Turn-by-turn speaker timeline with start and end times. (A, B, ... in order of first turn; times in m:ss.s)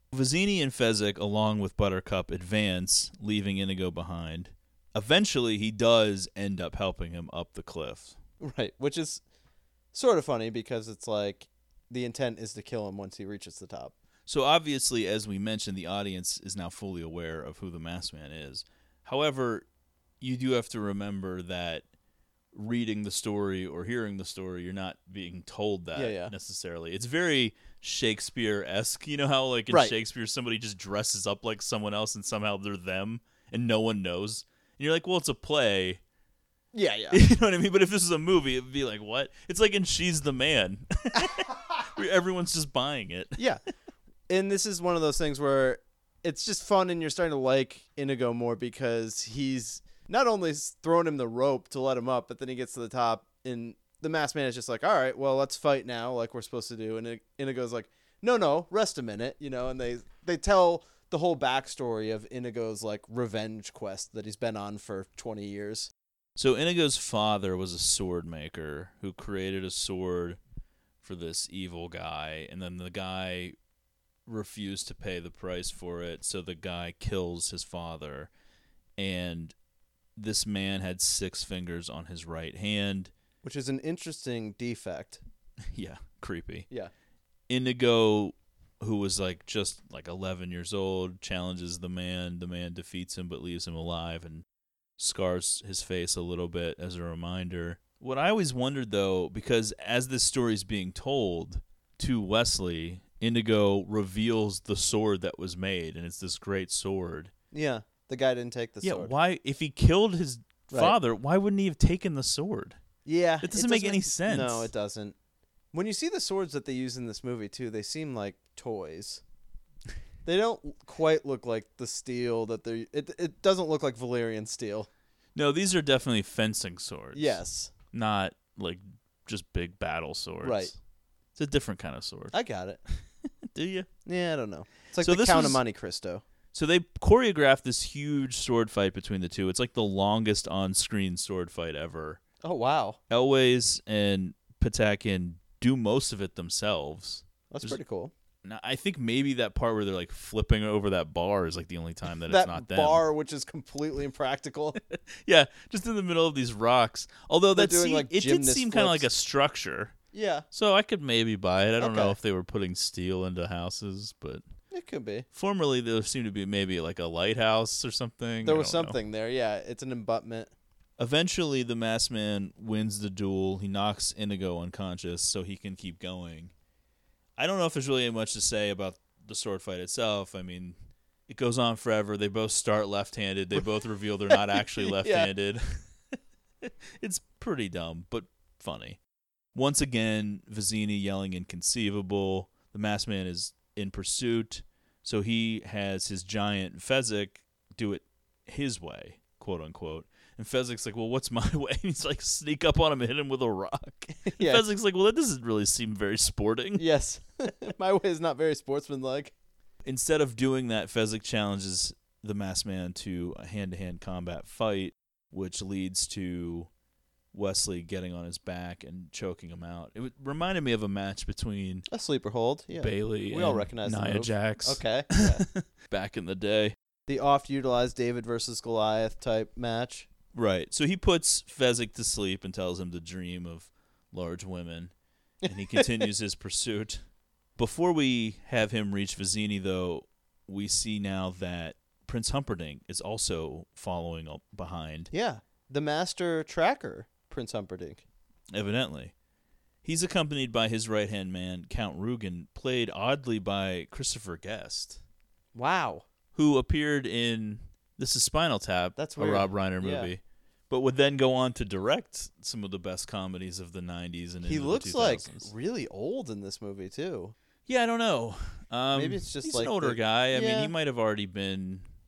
0:00.1-0:08.2 A
0:08.4-0:09.2 B
0:09.9-0:13.9 B
0:14.2-0:19.6 A
0:20.2-0:21.8 A
0:22.5-0:36.0 A
0:25.9-0:26.3 B
0:29.7-0:29.9 B
0:36.7-0:37.2 B
0:37.1-0:43.4 A
0:43.4-0:43.6 B
0:44.3-1:05.9 B
1:06.4-1:10.4 A
1:11.0-1:13.6 A
1:14.2-1:18.3 A
1:19.0-1:19.5 A
1:20.2-1:23.1 A
1:23.4-1:25.2 B
1:25.7-1:26.7 A
1:27.5-1:34.4 A
1:35.0-1:47.3 A
1:47.5-1:49.1 B
1:48.8-1:52.8 A
1:53.0-1:55.1 B
1:53.4-1:54.7 A
1:55.7-1:59.2 B
2:00.2-2:04.9 B
2:05.3-2:10.8 A
2:07.1-2:07.7 B
2:10.4-2:10.7 B
2:11.4-2:12.3 A
2:12.3-2:12.8 B
2:12.9-2:13.9 A
2:14.0-2:16.2 B
2:15.0-2:15.6 A
2:16.5-2:22.2 A
2:22.4-2:23.0 B
2:23.1-2:27.8 A
2:27.5-2:28.1 B
2:28.4-2:33.0 A
2:32.3-2:34.8 B
2:34.8-2:39.9 A
2:37.5-2:39.1 B
2:40.1-2:40.4 B
2:40.5-2:44.4 A
2:41.8-2:42.2 B
2:44.7-2:45.2 B
2:45.3-2:49.0 A
2:48.4-2:50.5 B
2:51.0-2:56.5 A
2:57.4-3:00.8 A
3:01.3-3:05.8 A
3:04.3-3:05.3 B
3:06.6-3:09.0 A
3:09.5-3:26.9 A
3:24.2-3:24.6 B
3:26.8-3:29.3 B
3:29.8-3:36.7 A
3:37.3-3:41.8 A
3:41.9-3:45.4 B
3:42.7-3:46.7 A
3:47.1-3:50.1 B
3:50.3-3:54.9 A
3:55.4-3:56.1 B
3:55.5-3:57.0 A
3:57.6-4:05.1 A
4:05.1-4:08.0 B
4:08.5-4:09.1 A
4:09.8-4:15.0 A
4:15.5-4:16.0 B
4:16.3-4:25.5 A
4:19.0-4:20.1 B
4:24.4-4:27.3 B
4:27.7-4:31.9 A
4:28.9-4:30.7 B